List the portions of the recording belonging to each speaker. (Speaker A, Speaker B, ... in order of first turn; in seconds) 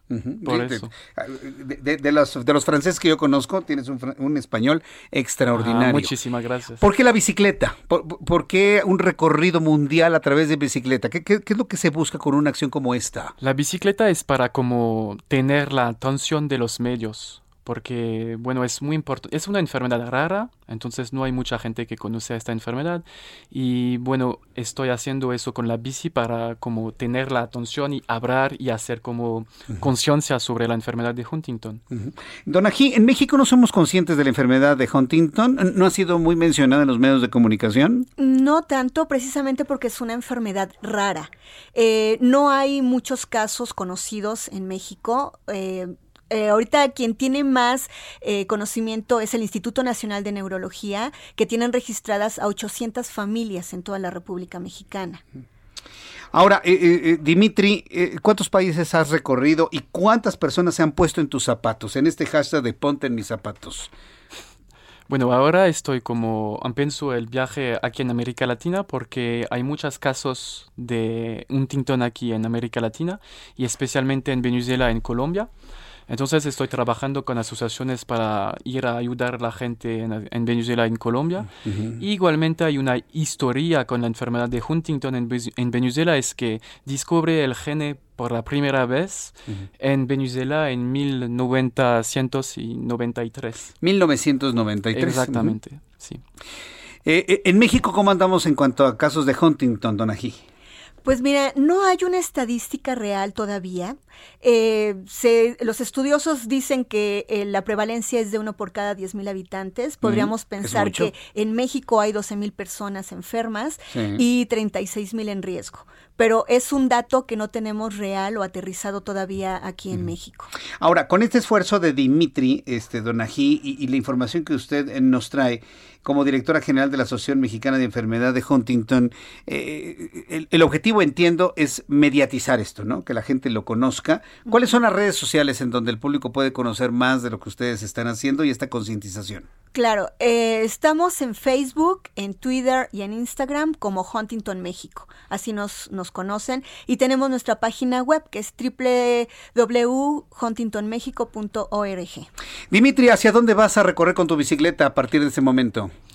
Speaker A: 0.1-6.2, 6.8-13.3, 31.9-38.0, 56.3-63.9, 81.6-82.0, 93.8-95.6, 97.0-100.4, 110.0-111.1, 113.9-114.2, 120.8-139.5, 152.7-155.9
Speaker B: 0.4-0.9, 5.5-6.8, 13.4-31.8, 65.1-75.5, 76.1-93.7, 94.9-96.2
Speaker C: 38.2-55.2, 101.0-120.5, 139.7-152.3